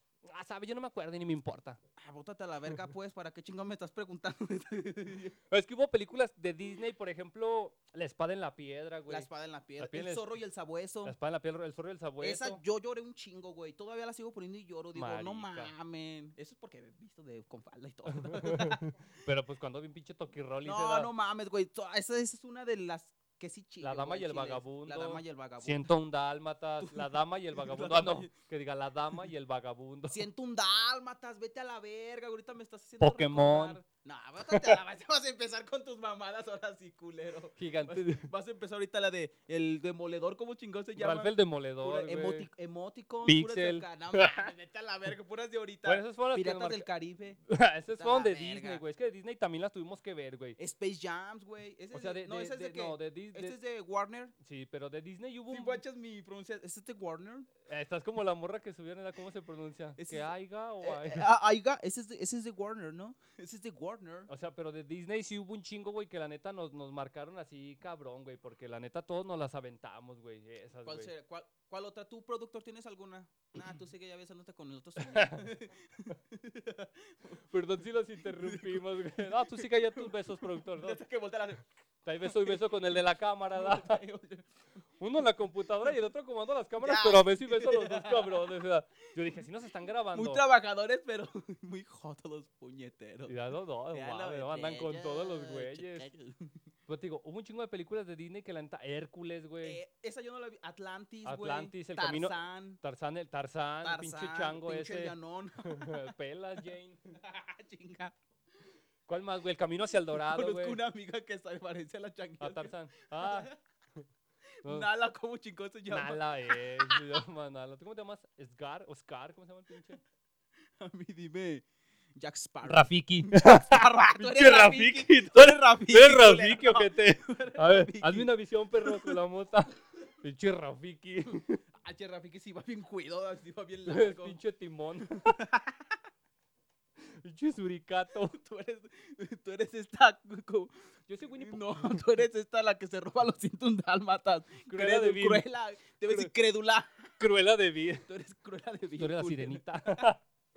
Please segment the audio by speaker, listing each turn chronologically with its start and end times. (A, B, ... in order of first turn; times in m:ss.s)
0:00.2-0:01.8 A
0:02.0-0:05.4 B
0:05.5-0:10.3 A
0:09.1-0:11.2 B
0:11.0-0:12.6 A
0:12.2-0:18.9 B
0:14.9-0:15.7 A
0:18.1-0:21.1 A
0:20.6-0:25.9 B
0:23.8-0:30.2 A
0:26.8-0:28.3 B
0:30.1-0:47.4 B
0:33.0-0:33.8 A
0:34.4-0:34.8 A
0:37.6-0:38.3 A
0:41.0-0:42.5 A
0:43.2-0:44.5 A
0:45.8-0:46.9 A
0:47.5-0:50.6 A
0:48.0-0:48.8 B
0:50.6-0:54.3 B
0:51.9-0:53.6 A
0:54.4-0:55.8 A
0:55.5-0:57.5 B
0:57.6-1:01.2 A
1:00.0-1:00.3 B
1:00.8-1:04.3 B
1:04.3-1:11.1 A
1:10.8-1:17.4 B
1:15.0-1:15.5 A
1:17.4-1:21.0 A
1:18.2-1:21.6 B
1:22.0-1:24.0 A
1:22.2-1:23.0 B
1:23.5-1:24.5 B
1:25.0-1:30.4 A
1:26.8-1:28.6 B
1:30.1-1:33.4 B
1:33.2-1:36.1 A
1:33.9-1:36.6 B
1:36.9-1:39.8 A
1:39.6-1:42.8 B
1:41.2-1:47.2 A
1:43.8-1:46.1 B
1:47.2-1:48.2 B
1:49.1-1:50.8 A
1:50.1-1:53.6 B
1:52.4-1:53.5 A
1:54.6-1:57.0 B
1:54.6-1:54.9 A
1:55.9-2:00.0 A
2:00.8-2:09.2 B
2:02.6-2:11.6 A
2:11.7-2:14.4 B
2:13.9-2:15.4 A
2:15.2-2:16.0 B
2:17.0-2:18.4 A
2:18.3-2:20.7 B
2:21.1-2:22.0 A
2:21.2-2:27.1 B
2:24.6-2:25.4 A
2:26.0-2:26.3 A
2:27.2-2:28.1 A
2:28.1-2:30.1 B
2:29.0-2:30.2 A